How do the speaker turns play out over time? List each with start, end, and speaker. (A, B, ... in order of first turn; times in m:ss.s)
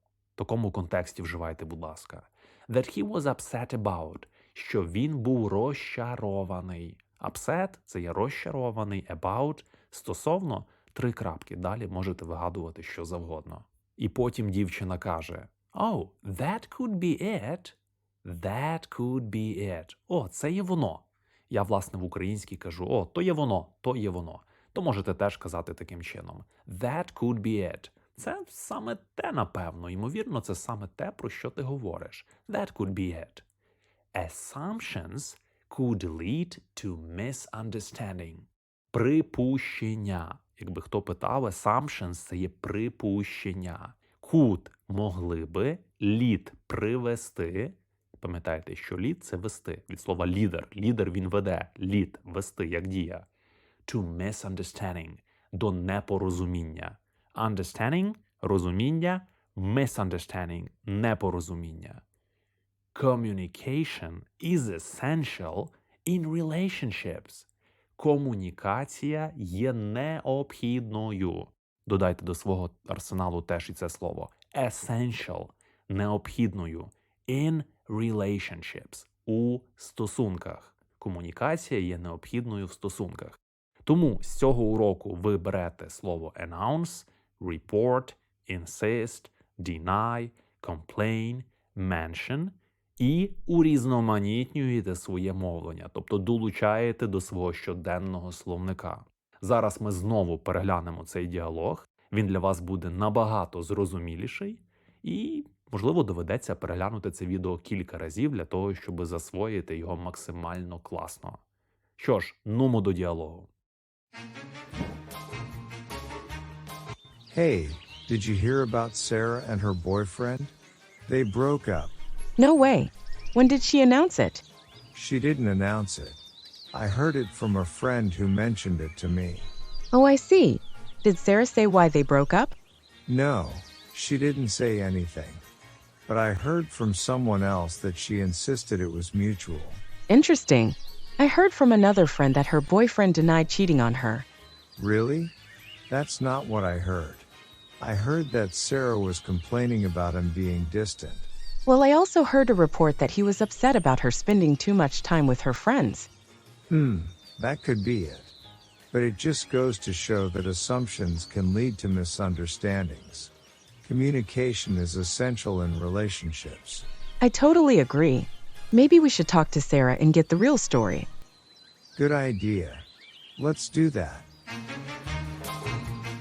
0:00.4-0:33.4 A
0:34.1-0:53.3 A
0:53.8-1:02.0 A
1:02.9-1:07.5 A
1:08.0-1:51.4 A
1:52.0-1:53.5 A
1:57.3-2:00.5 B
2:01.0-2:01.9 B
2:02.4-2:04.4 C
2:04.9-2:06.2 B
2:06.7-2:09.5 B
2:09.9-2:12.6 C
2:13.1-2:15.4 B
2:16.0-2:19.8 B
2:20.1-2:24.2 C
2:24.8-2:25.3 B
2:25.9-2:27.3 B
2:27.8-2:31.3 B
2:31.6-2:36.1 C
2:36.7-2:38.3 B
2:38.9-2:43.3 B
2:43.8-2:46.8 B
2:47.2-2:51.1 C
2:52.0-2:54.3 B